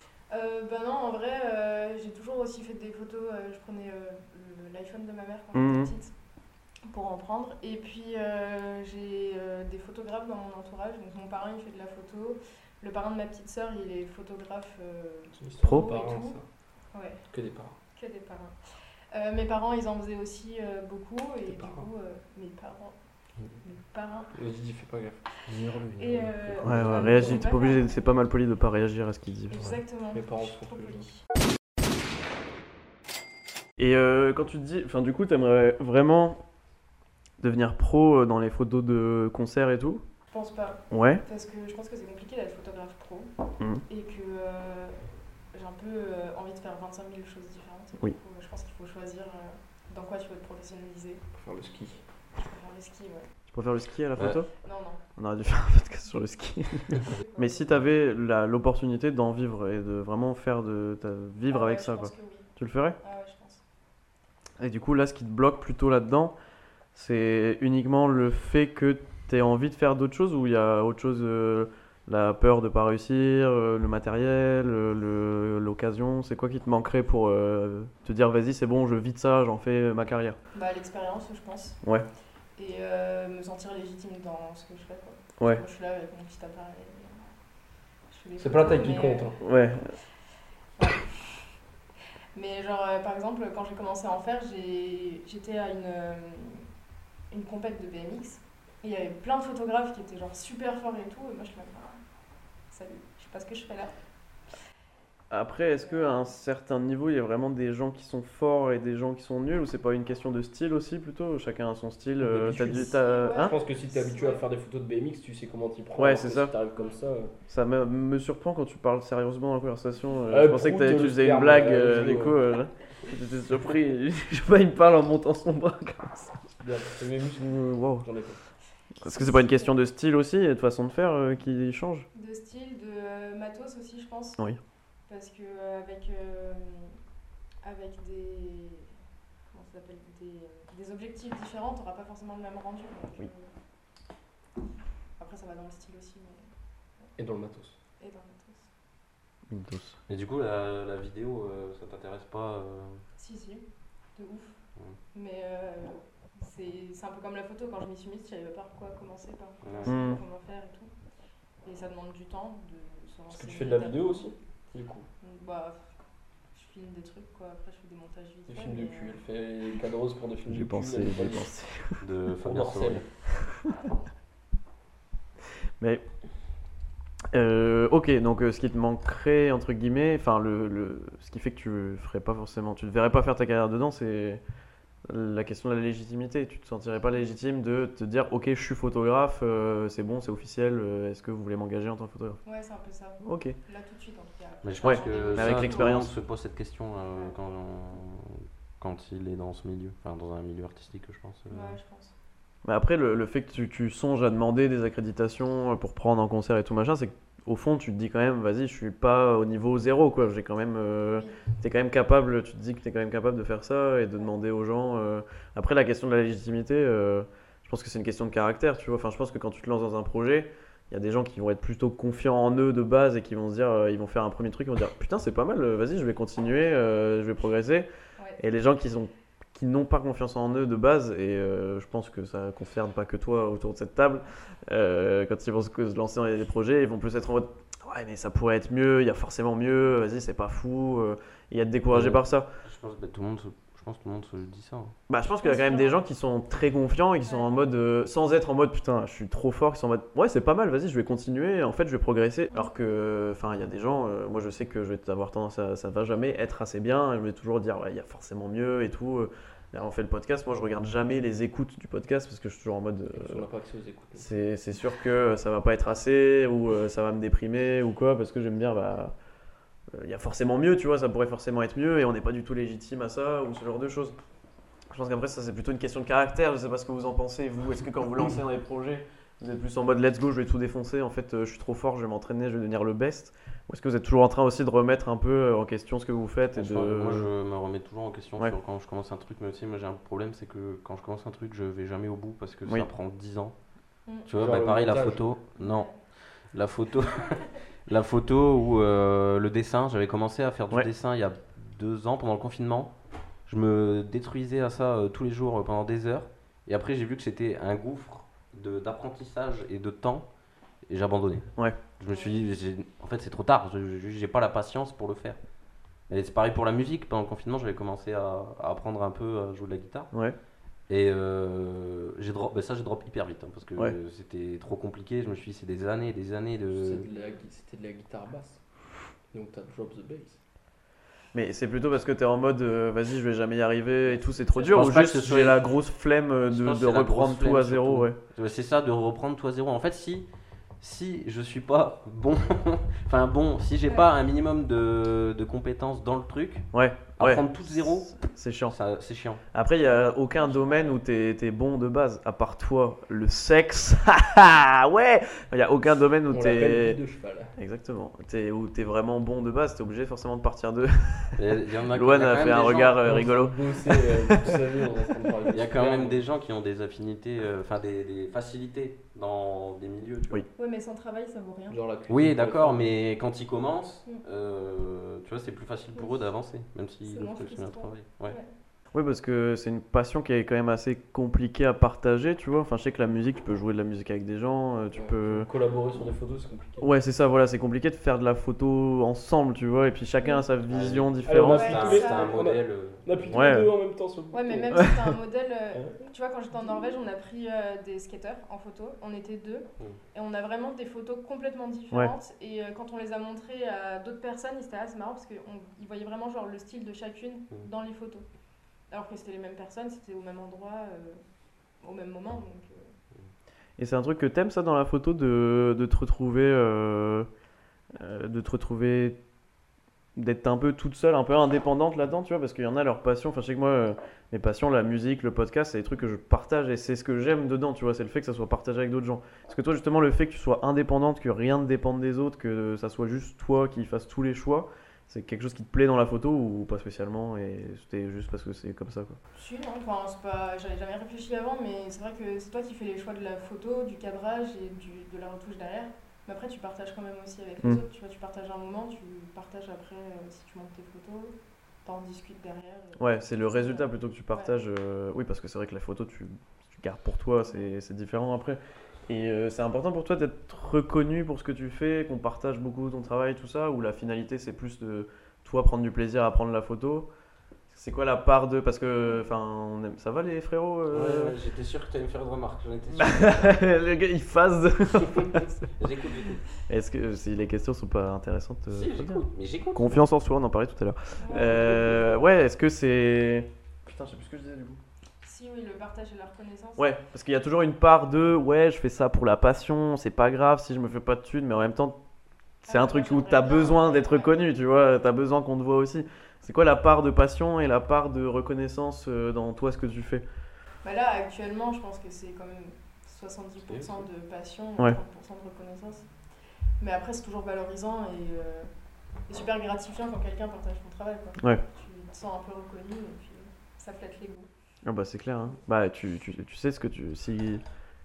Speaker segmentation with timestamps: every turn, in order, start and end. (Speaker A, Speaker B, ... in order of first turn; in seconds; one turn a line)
Speaker A: 0.3-6.1
Speaker B: 5.5-5.9
Speaker A: 6.9-16.4
Speaker C: 15.4-16.4
Speaker B: 15.6-16.0
Speaker A: 16.9-17.2
Speaker C: 17.3-17.8
Speaker A: 17.9-18.6
Speaker A: 19.1-22.9
Speaker C: 21.5-21.9
Speaker A: 23.6-24.3
Speaker C: 24.3-25.2
Speaker D: 25.5-26.6
Speaker A: 26.0-28.3
Speaker C: 26.6-27.5
Speaker B: 26.6-29.6
Speaker A: 29.5-31.2
Speaker C: 30.1-31.1
Speaker B: 33.8-36.4
Speaker B: 37.4-40.0
Speaker A: 40.3-43.3
Speaker B: 40.9-41.2
Speaker A: 43.9-45.0
Speaker A: 45.5-51.2
Speaker C: 51.3-52.0
Speaker A: 52.4-53.3
Speaker B: 53.5-54.5
Speaker A: 54.6-55.0
Speaker B: 55.2-63.0
Speaker A: 57.1-57.7
Speaker A: 61.5-63.6
Speaker B: 64.6-66.3
Speaker B: 66.9-80.4
Speaker A: 80.5-81.8
Speaker A: 82.5-87.2
Speaker A: 88.1-89.4
Speaker C: 88.4-89.4
Speaker B: 89.4-89.9
Speaker A: 90.8-91.5
Speaker A: 92.3-96.7
Speaker A: 97.3-102.0
Speaker A: 102.7-103.9
Speaker B: 105.3-113.5
Speaker A: 105.8-106.2
Speaker C: 112.2-117.3
Speaker A: 112.7-114.5
Speaker B: 115.9-116.5
Speaker B: 117.5-126.5
Speaker C: 120.3-122.4
Speaker C: 126.6-128.4
Speaker B: 127.4-128.1
Speaker B: 129.0-132.1
Speaker A: 129.1-129.7
Speaker A: 132.1-134.4
Speaker A: 135.1-137.0
Speaker A: 137.6-138.9
Speaker A: 139.5-143.5
Speaker A: 145.2-146.5
Speaker C: 147.2-147.8
Speaker A: 148.0-148.7
Speaker B: 149.5-150.0
Speaker D: 150.1-153.0
Speaker A: 153.2-153.6
Speaker A: 154.2-154.5
Speaker A: 155.1-160.9
Speaker D: 159.6-159.9
Speaker B: 159.8-160.2
Speaker A: 161.6-164.3
Speaker C: 163.3-165.1
Speaker A: 165.2-165.9
Speaker A: 166.5-169.2
Speaker C: 168.5-171.4
Speaker B: 170.5-172.0
Speaker D: 172.0-173.0
Speaker C: 172.4-173.1
Speaker B: 173.3-173.7
Speaker B: 177.3-184.4
Speaker B: 185.1-192.4
Speaker A: 192.4-196.1
Speaker B: 193.2-193.6
Speaker D: 194.6-201.8
Speaker B: 194.8-196.1
Speaker A: 201.5-202.1
Speaker B: 202.6-242.5
Speaker A: 211.1-211.4
Speaker D: 241.9-244.9
Speaker B: 245.1-263.5
Speaker A: 245.4-246.0
Speaker A: 247.2-247.5
Speaker C: 263.1-264.3
Speaker B: 264.1-269.1
Speaker B: 269.9-274.2
Speaker B: 274.9-287.3
Speaker D: 286.5-293.5
Speaker D: 294.2-302.9
Speaker C: 294.4-295.2
Speaker A: 295.6-296.0
Speaker D: 303.4-310.3
Speaker D: 310.9-315.4
Speaker A: 312.1-312.4
Speaker D: 316.1-320.1
Speaker D: 320.9-327.1
Speaker C: 326.8-328.6
Speaker C: 329.3-330.4
Speaker B: 331.3-338.2
Speaker A: 334.2-334.8
Speaker D: 334.6-335.6
Speaker D: 336.5-340.3
Speaker D: 340.8-348.2
Speaker B: 346.7-348.8
Speaker D: 348.7-349.4
Speaker B: 349.5-357.0
Speaker A: 350.4-350.9
Speaker C: 356.3-357.5
Speaker B: 357.6-361.4
Speaker D: 361.4-363.0
Speaker B: 361.9-364.7
Speaker C: 362.9-366.2
Speaker D: 365.5-370.4
Speaker A: 370.6-371.8
Speaker C: 371.7-372.9
Speaker D: 372.1-378.4
Speaker A: 377.0-378.5
Speaker B: 378.9-385.5
Speaker C: 384.9-386.9
Speaker B: 386.8-391.9
Speaker D: 390.7-393.4
Speaker C: 391.2-394.9
Speaker A: 391.4-392.4
Speaker B: 393.3-393.7
Speaker A: 394.3-408.2
Speaker B: 394.7-395.1
Speaker C: 395.7-396.1
Speaker A: 408.9-411.2
Speaker A: 411.8-412.9
Speaker B: 413.8-417.3
Speaker B: 417.9-419.2
Speaker B: 420.1-439.2
Speaker A: 439.3-454.5
Speaker B: 453.0-467.1
Speaker B: 467.7-471.4
Speaker D: 470.9-473.6
Speaker B: 473.0-475.6
Speaker D: 475.8-476.4
Speaker B: 476.7-484.8
Speaker D: 478.7-480.0
Speaker A: 481.2-482.0
Speaker A: 485.2-487.0
Speaker B: 486.8-492.0
Speaker B: 492.6-500.2
Speaker A: 492.6-494.5
Speaker A: 500.8-506.1
Speaker A: 506.8-508.7
Speaker A: 509.3-514.5
Speaker B: 514.8-517.6